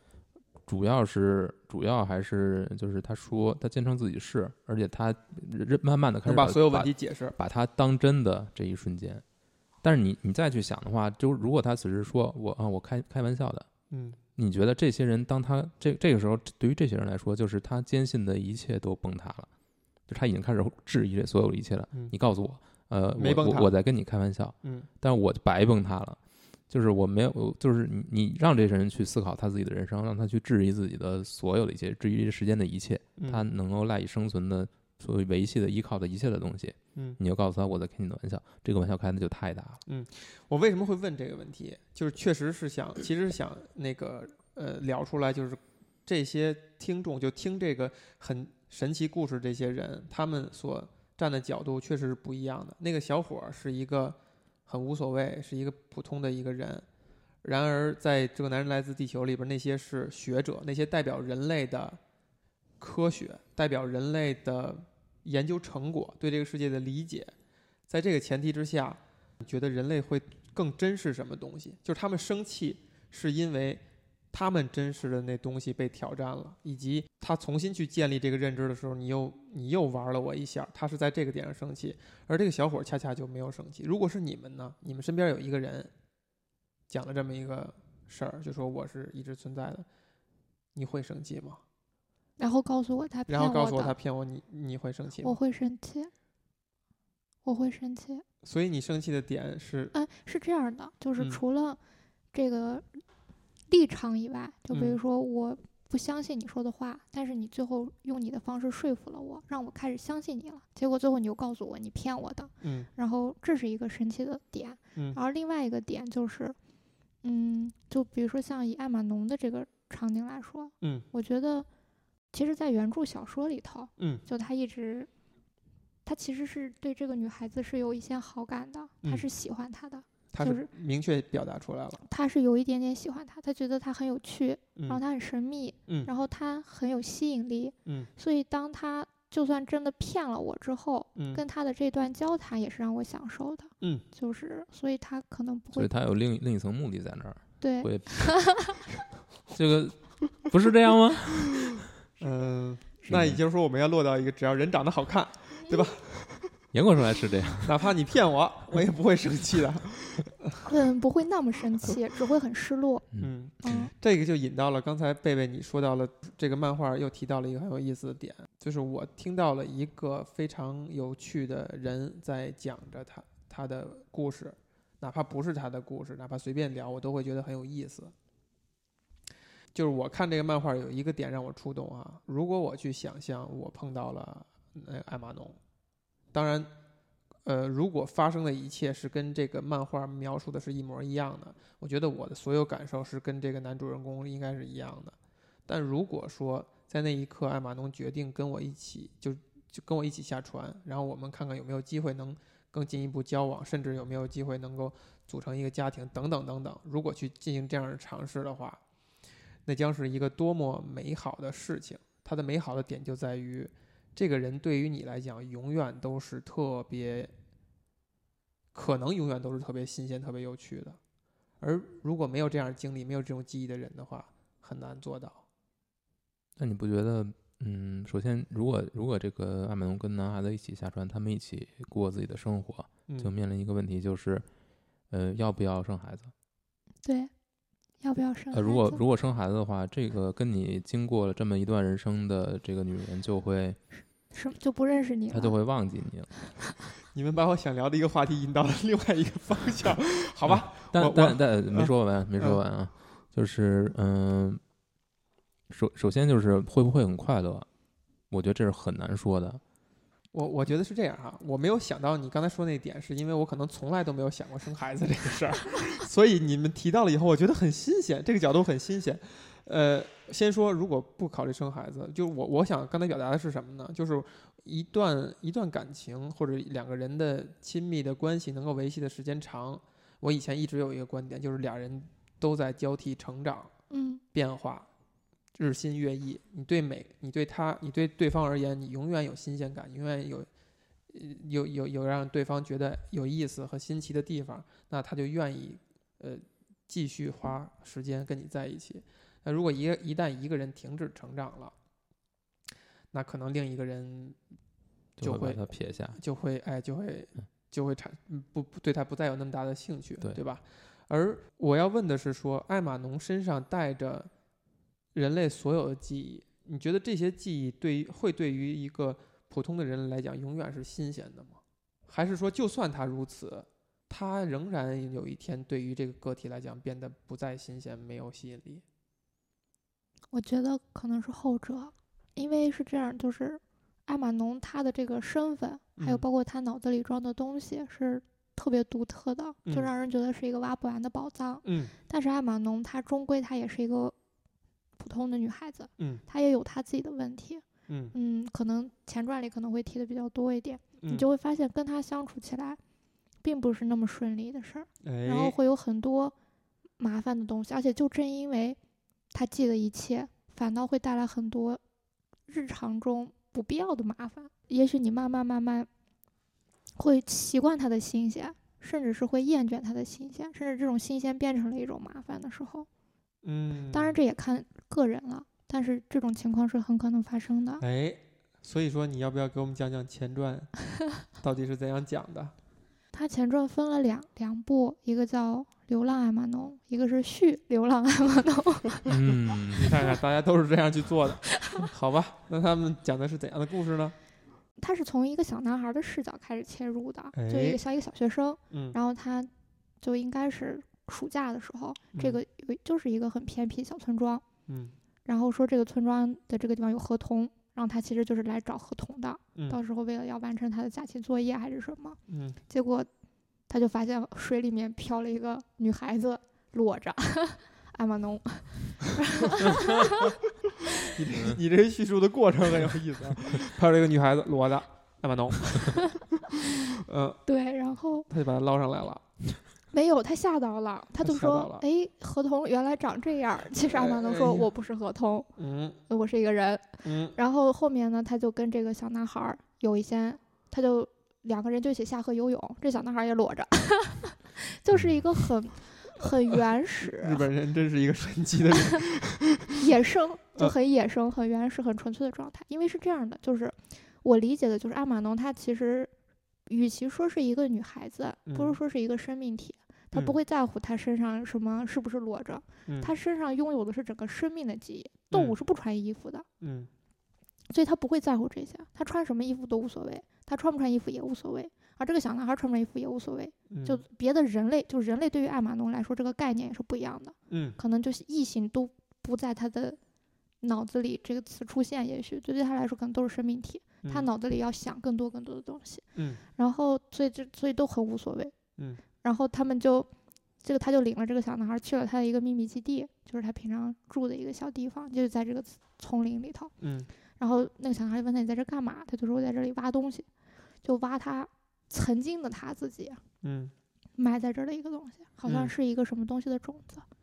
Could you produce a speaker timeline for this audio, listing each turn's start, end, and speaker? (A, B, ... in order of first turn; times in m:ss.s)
0:00.7-0:09.2 A
0:06.2-0:07.4 B
0:09.8-0:13.7 A
0:13.9-0:14.2 B
0:14.4-0:19.5 A
0:20.1-0:39.8 A
0:23.2-0:23.7 B
0:24.6-0:24.9 B
0:33.2-0:33.4 B
0:39.8-0:56.8 B
0:57.4-1:02.0 B
1:02.8-1:07.3 B
1:07.9-1:25.9 B
1:26.9-1:29.9 B
1:30.7-1:31.6 B
1:32.4-1:33.9 C
1:33.3-1:35.4 B
1:35.2-1:36.1 C
1:37.4-1:38.2 C
1:38.4-1:39.9 B
1:39.9-1:41.8 C
1:42.3-1:43.0 C
1:43.7-1:56.6 C
1:44.7-1:45.0 B
1:52.6-1:52.9 B
1:57.2-2:01.7 C
2:02.3-2:05.1 C
2:04.0-2:04.2 B
2:06.0-2:10.7 C
2:10.3-2:12.0 B
2:12.0-2:25.9 C
2:21.2-2:21.4 B
2:25.7-2:28.8 A
2:27.6-2:28.8 C
2:29.5-2:31.8 A
2:32.2-2:36.6 B
2:33.1-2:33.4 A
2:35.6-2:35.9 C
2:36.7-2:37.8 A
2:37.6-2:40.6 B
2:40.6-2:43.1 C
2:43.1-2:43.9 A
2:43.2-2:58.1 B
2:43.6-2:43.9 C
2:59.7-3:05.6 B
3:06.3-3:06.7 B
3:07.4-3:15.2 B
3:15.7-3:28.8 B
3:29.6-3:37.3 B
3:38.7-3:41.0 B
3:41.6-3:45.4 B
3:46.6-3:54.4 A
3:55.1-3:56.3 A
3:57.0-3:57.3 C
3:58.0-3:59.0 C
3:58.5-4:03.8 A
4:04.3-4:05.6 C
4:05.3-4:06.3 A
4:07.1-4:12.6 B
4:10.4-4:14.6 A
4:15.7-4:17.7 A
4:18.3-4:19.6 A
4:20.3-4:43.7 B
4:43.9-4:44.2 C
4:44.3-4:44.9 B
4:45.5-4:50.5 B
4:51.1-5:01.7 B
5:03.1-5:04.4 B
5:05.2-5:06.2 A
5:05.2-5:14.3 B
5:15.1-5:28.8 B
5:30.3-5:44.1 C
5:36.0-5:36.2 B
5:41.6-5:41.9 B
5:45.0-5:52.8 C
5:47.9-5:48.1 B
5:51.0-5:51.3 B
5:53.4-5:56.3 C
5:55.0-5:55.6 B
5:57.0-5:58.8 C
5:59.3-6:01.8 C
6:02.5-6:05.9 C
6:07.0-6:12.9 C
6:13.4-6:14.2 B
6:13.9-6:17.8 C
6:17.8-6:22.5 B
6:23.1-6:29.1 C
6:29.1-6:29.9 A
6:29.7-6:34.1 B
6:34.8-6:44.4 C
6:37.3-6:37.8 B
6:38.7-6:39.0 B
6:42.1-6:42.4 B
6:44.7-6:44.9 B
6:45.2-6:53.1 C
6:52.3-6:52.6 B
6:53.7-7:00.4 C
7:01.0-7:07.4 B
7:07.4-7:08.3 C
7:08.3-7:09.5 B
7:09.9-7:15.5 C
7:11.2-7:11.8 B
7:13.8-7:14.7 B
7:15.6-7:16.0 B
7:16.1-7:27.4 C
7:17.0-7:17.4 B
7:27.0-7:29.8 B
7:29.8-7:36.1 C
7:36.7-7:46.4 C
7:38.5-7:38.8 B
7:42.9-7:43.1 B
7:45.3-7:45.6 B
7:46.6-7:46.9 B
7:47.7-8:00.0 C
7:53.7-7:54.0 B
7:57.5-7:57.8 B
8:00.6-8:08.5 C
8:06.1-8:06.4 B
8:09.2-8:10.1 C
8:10.6-8:16.7 C
8:16.8-8:17.1 B
8:17.4-8:20.3 C
8:20.8-8:23.2 C
8:23.4-8:23.7 B
8:24.2-8:27.0 C
8:25.4-8:25.7 B